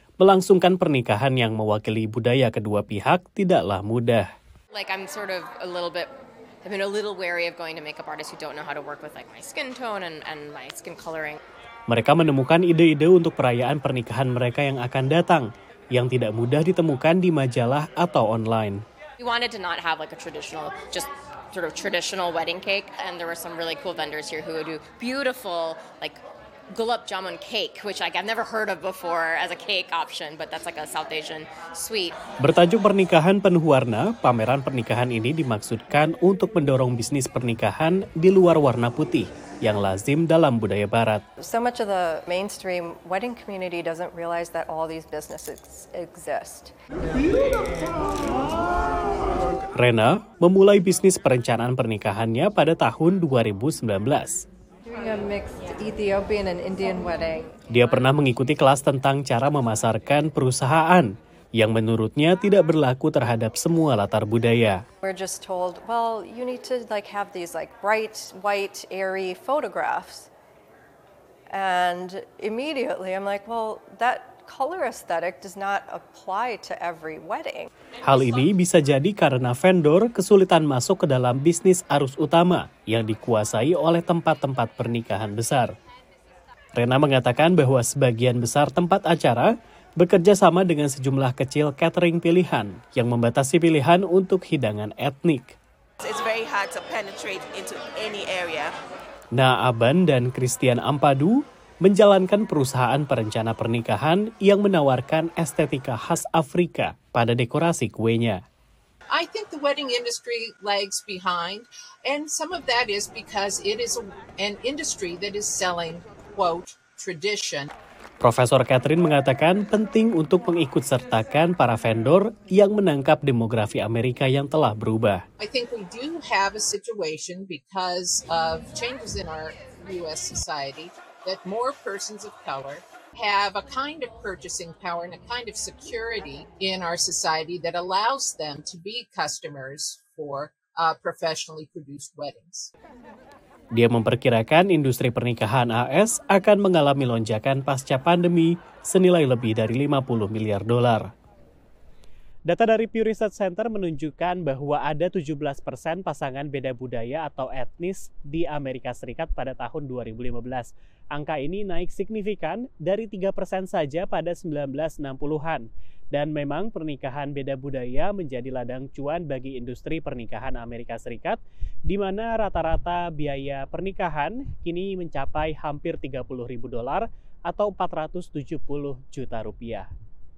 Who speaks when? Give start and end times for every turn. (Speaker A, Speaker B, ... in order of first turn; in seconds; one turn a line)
Speaker A: 0.2-4.3
Speaker B: 4.7-6.1
Speaker B: 6.6-11.4
Speaker A: 11.9-18.8
Speaker B: 19.2-26.2
Speaker B: 26.7-32.1
Speaker A: 32.4-41.2
Speaker C: 41.4-46.7
Speaker A: 49.8-54.5
Speaker C: 54.9-57.6
Speaker A: 57.7-64.8
Speaker C: 65.0-70.3
Speaker C: 71.5-77.7
Speaker A: 78.0-85.7
Speaker A: 86.8-95.6
Speaker D: 96.0-98.8
Speaker A: 99.3-108.4
Speaker E: 109.1-117.7
Speaker A: 118.2-125.2
Speaker E: 125.4-142.7
Speaker A: 143.8-151.1
Speaker A: 152.5-179.9